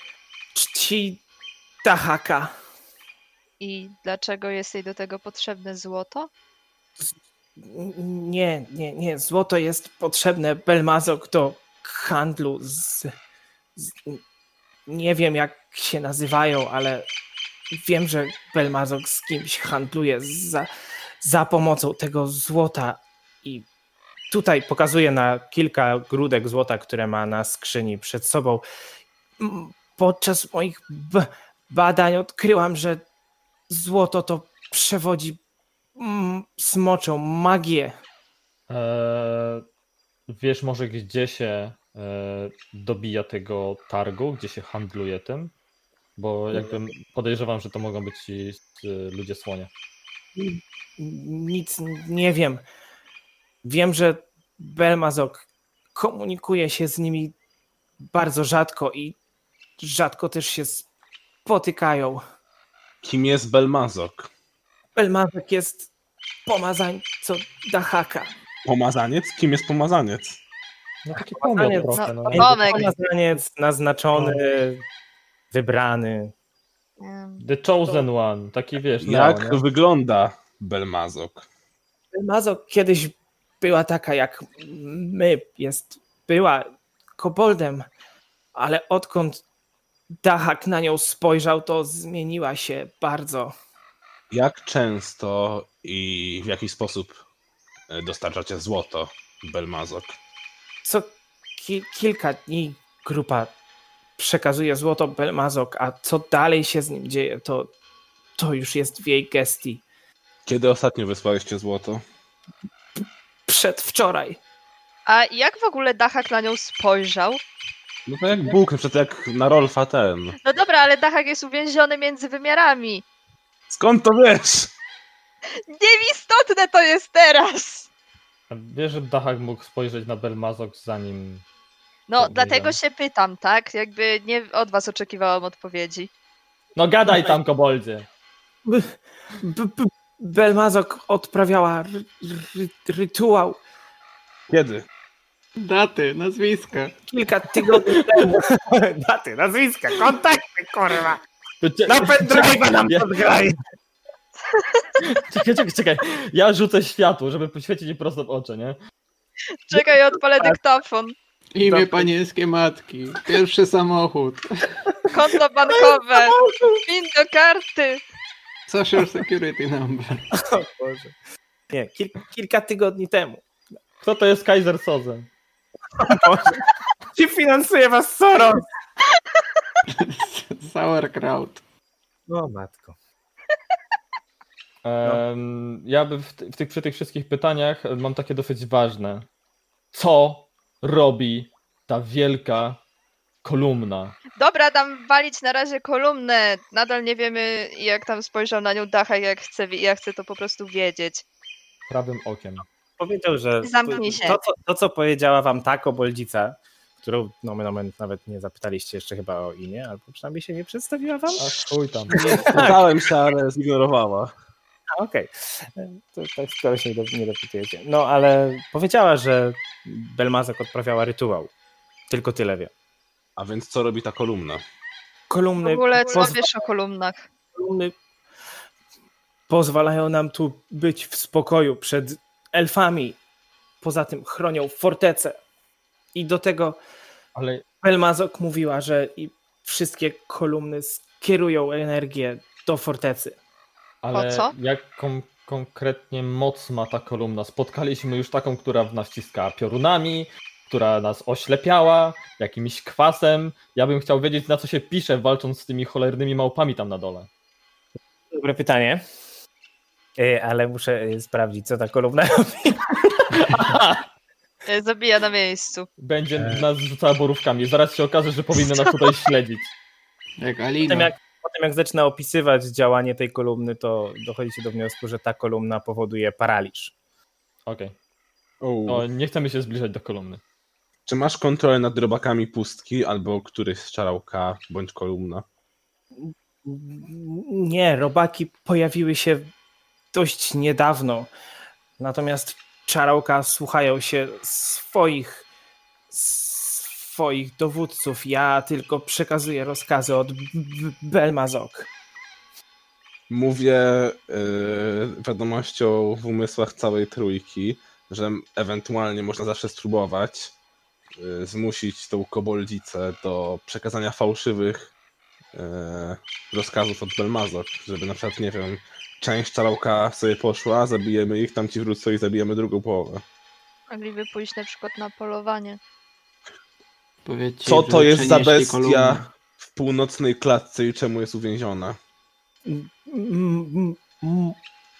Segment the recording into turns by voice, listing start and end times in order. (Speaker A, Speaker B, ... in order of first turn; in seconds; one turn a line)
Speaker A: 0.5-1.2
Speaker A: 1.8-2.5
Speaker B: 3.6-6.3
Speaker A: 7.0-13.1
Speaker A: 13.8-14.2
Speaker A: 14.9-17.1
Speaker A: 17.7-20.7
Speaker A: 21.2-23.7
Speaker A: 24.3-28.6
Speaker A: 29.4-33.0
Speaker A: 33.7-35.4
Speaker A: 36.0-37.9
Speaker C: 38.7-39.6
Speaker C: 40.3-45.5
Speaker C: 46.2-49.7
Speaker A: 50.4-52.6
Speaker A: 53.6-57.4
Speaker A: 58.1-59.2
Speaker A: 59.8-60.9
Speaker A: 61.5-62.2
Speaker D: 63.0-64.3
Speaker A: 65.0-65.9
Speaker A: 66.5-68.3
Speaker D: 68.7-70.4
Speaker C: 71.0-72.5
Speaker A: 71.1-74.8
Speaker B: 71.9-72.9
Speaker A: 75.5-76.3
Speaker B: 77.0-78.1
Speaker C: 77.4-79.6
Speaker D: 79.0-81.5
Speaker A: 82.1-87.9
Speaker A: 88.5-89.4
Speaker A: 90.2-93.5
Speaker D: 94.3-97.2
Speaker D: 97.9-100.2
Speaker A: 100.8-103.5
Speaker A: 104.2-107.7
Speaker A: 108.4-109.8
Speaker D: 110.5-112.0
Speaker A: 113.5-114.4
Speaker B: 115.1-117.4
Speaker D: 118.1-120.4
Speaker B: 120.4-123.0
Speaker D: 123.7-124.7
Speaker B: 125.7-127.9
Speaker C: 128.5-131.4
Speaker B: 132.1-136.1
Speaker C: 132.2-132.8
Speaker C: 136.8-138.1
Speaker A: 137.1-137.4
Speaker A: 138.7-143.6
Speaker D: 144.5-144.9
Speaker E: 145.6-147.0
Speaker A: 147.1-151.2
Speaker C: 151.6-153.1
Speaker A: 151.9-153.6
Speaker B: 154.5-154.9
Speaker C: 155.0-158.8
Speaker B: 159.7-161.2
Speaker A: 159.7-160.6
Speaker E: 161.5-164.7
Speaker A: 161.6-162.1
Speaker B: 165.1-168.0
Speaker A: 165.7-166.8
Speaker E: 168.7-170.3
Speaker A: 170.3-171.1
Speaker A: 171.7-173.4
Speaker C: 174.0-175.3
Speaker A: 176.0-176.6
Speaker A: 177.1-178.7
Speaker E: 179.9-181.6
Speaker A: 182.3-182.9
Speaker C: 184.8-189.3
Speaker C: 189.9-192.8
Speaker C: 193.4-194.2
Speaker B: 194.4-201.2
Speaker C: 201.9-202.7
Speaker A: 203.0-212.8
Speaker B: 203.6-204.4
Speaker C: 211.4-212.2
Speaker E: 212.1-212.7
Speaker D: 212.5-214.3
Speaker A: 215.0-221.5
Speaker A: 222.1-222.7
Speaker D: 223.4-224.6
Speaker A: 225.3-226.5
Speaker B: 225.6-227.2
Speaker A: 227.6-227.9
Speaker A: 229.5-233.2
Speaker A: 233.8-235.4
Speaker A: 236.1-236.8
Speaker C: 237.3-237.6
Speaker A: 237.8-243.4
Speaker C: 244.0-257.3
Speaker B: 244.1-244.5
Speaker A: 258.3-259.0
Speaker A: 260.2-262.8
Speaker C: 263.3-264.0
Speaker B: 264.7-265.9
Speaker C: 266.0-269.7
Speaker A: 266.4-266.6
Speaker E: 270.4-271.1
Speaker A: 270.9-276.9
Speaker C: 277.7-277.9
Speaker D: 278.6-279.1
Speaker C: 278.9-280.4
Speaker D: 281.1-285.4
Speaker A: 286.2-289.5
Speaker A: 290.1-291.3
Speaker A: 292.0-295.5
Speaker A: 296.1-301.9
Speaker D: 303.3-310.5
Speaker D: 311.2-314.9
Speaker D: 315.5-323.2
Speaker B: 323.9-325.8
Speaker E: 327.2-329.2
Speaker D: 327.6-332.0
Speaker A: 332.7-334.6